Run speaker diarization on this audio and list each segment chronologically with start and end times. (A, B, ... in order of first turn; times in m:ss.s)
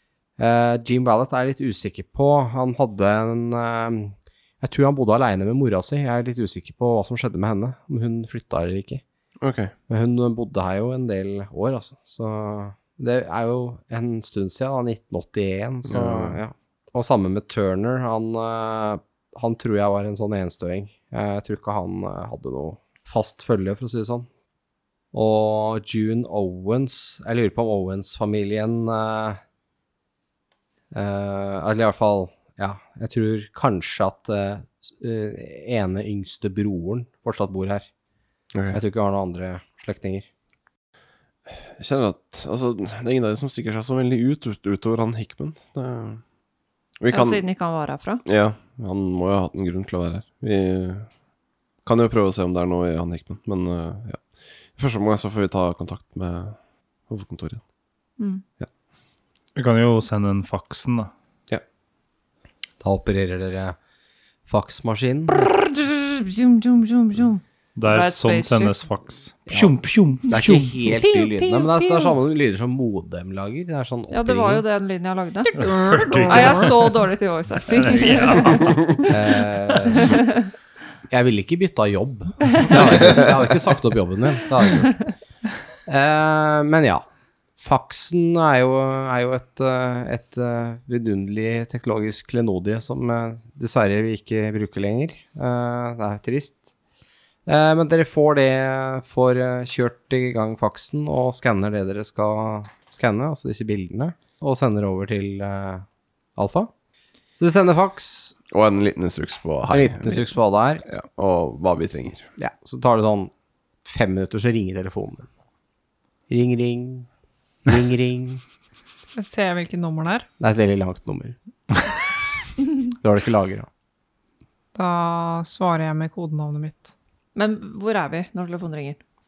0:00.4-0:09.0 A
0:09.4-0:09.7 B
0:09.9-0:24.3 A
0:15.9-0:16.4 B
0:25.1-0:29.4 A
0:30.9-0:37.9 A
0:38.5-0:38.8 B
0:38.7-0:40.3 A
0:41.5-0:46.2 B
0:47.0-0:47.4 B
0:47.1-0:48.2 C
0:48.2-0:51.1 B
0:51.8-0:56.6 B
0:57.1-0:57.6 B
0:59.6-1:01.1 D
1:02.8-1:03.8 A
1:04.5-1:05.5 A
1:05.4-1:08.8 C
1:07.8-1:10.8 D
1:09.5-1:14.6 A
1:11.0-1:12.1 C
1:14.1-1:19.4 C
1:15.6-1:17.0 D
1:15.6-1:16.7 E
1:17.7-1:18.9 D
1:19.1-1:20.1 A
1:19.9-1:20.5 C
1:21.1-1:25.0 A
1:25.9-1:27.0 A
1:27.6-1:36.7 A
1:37.5-1:45.8 A
1:46.4-1:46.7 A
1:47.4-1:48.4 A
1:48.5-1:50.3 B
1:49.7-1:50.8 A
1:50.9-1:52.3 B
1:52.4-1:53.3 A
1:53.8-1:55.3 A
1:56.3-1:57.1 A
1:57.7-1:58.4 A
1:59.2-2:00.3 E
2:00.4-2:01.4 A
2:03.0-2:03.7 A
2:04.8-2:06.9 E
2:07.4-2:09.0 C